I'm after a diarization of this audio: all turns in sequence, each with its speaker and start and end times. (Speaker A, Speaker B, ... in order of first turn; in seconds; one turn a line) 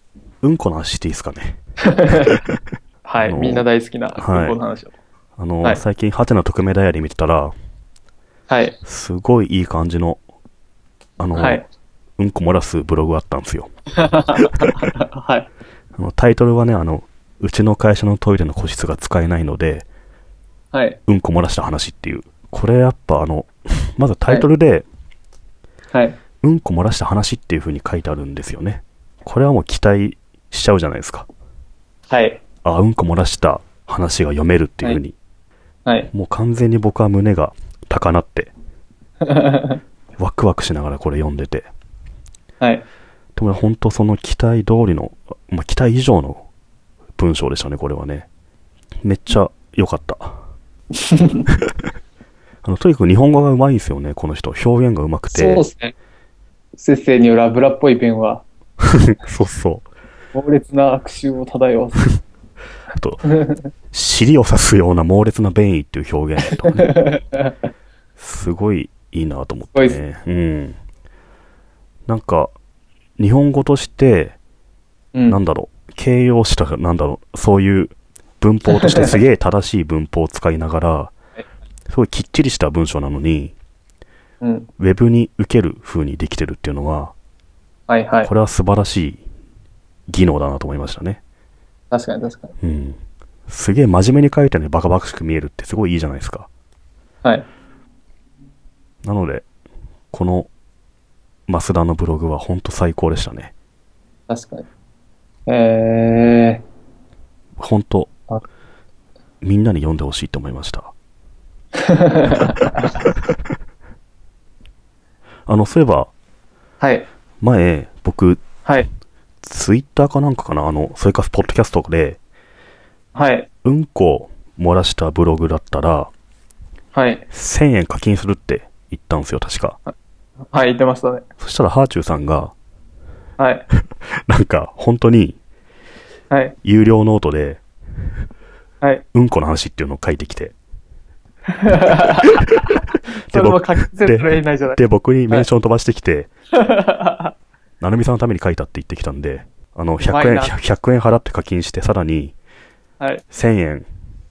Speaker A: 0.4-1.6
Speaker B: 1.9-2.3
Speaker B: 3.0-4.9
Speaker A: 3.2-3.6
Speaker A: 4.2-4.5
Speaker A: 5.4-7.5
Speaker B: 8.5-8.8
Speaker A: 8.8-10.2
Speaker A: 11.2-11.6
Speaker B: 11.3-11.6
Speaker A: 12.2-13.7
Speaker B: 14.0-15.5
Speaker A: 16.0-19.9
Speaker B: 20.7-21.0
Speaker A: 21.1-24.9
Speaker B: 25.9-26.2
Speaker A: 26.4-31.2
Speaker B: 32.1-32.4
Speaker A: 32.6-35.1
Speaker A: 36.1-38.5
Speaker B: 39.2-39.8
Speaker A: 40.2-41.7
Speaker A: 43.4-46.5
Speaker A: 47.1-48.3
Speaker A: 49.0-50.4
Speaker B: 50.9-51.5
Speaker A: 52.6-55.6
Speaker B: 55.3-55.9
Speaker B: 56.8-58.4
Speaker A: 59.1-59.9
Speaker B: 60.3-62.0
Speaker A: 62.9-63.2
Speaker B: 63.3-63.6
Speaker A: 63.9-66.9
Speaker B: 66.7-67.5
Speaker A: 68.2-70.8
Speaker A: 72.1-72.5
Speaker A: 73.2-74.4
Speaker A: 75.3-81.1
Speaker B: 78.7-79.2
Speaker A: 81.9-83.5
Speaker B: 84.4-84.7
Speaker A: 84.8-87.1
Speaker B: 87.9-88.3
Speaker A: 88.2-89.2
Speaker A: 90.1-91.2
Speaker B: 91.9-92.5
Speaker A: 92.6-96.5
Speaker A: 99.0-99.5
Speaker A: 100.1-100.5
Speaker A: 101.5-103.5
Speaker B: 104.3-104.7
Speaker B: 105.5-106.6
Speaker A: 107.6-108.1
Speaker A: 109.4-110.9
Speaker B: 111.7-112.9
Speaker A: 115.5-116.1
Speaker B: 116.8-117.1
Speaker A: 117.4-118.5
Speaker A: 119.4-122.2
Speaker B: 123.1-123.5
Speaker A: 123.6-126.1
Speaker B: 126.9-127.2
Speaker A: 127.3-129.8
Speaker B: 130.5-131.2
Speaker A: 131.4-132.5
Speaker B: 133.4-133.7
Speaker A: 134.3-135.4
Speaker B: 136.3-136.6
Speaker A: 136.6-137.6
Speaker A: 139.1-140.5
Speaker B: 141.6-142.5
Speaker A: 142.7-146.3
Speaker B: 143.3-145.5
Speaker B: 146.5-147.3
Speaker A: 147.8-152.3
Speaker B: 150.0-150.5
Speaker A: 153.3-153.8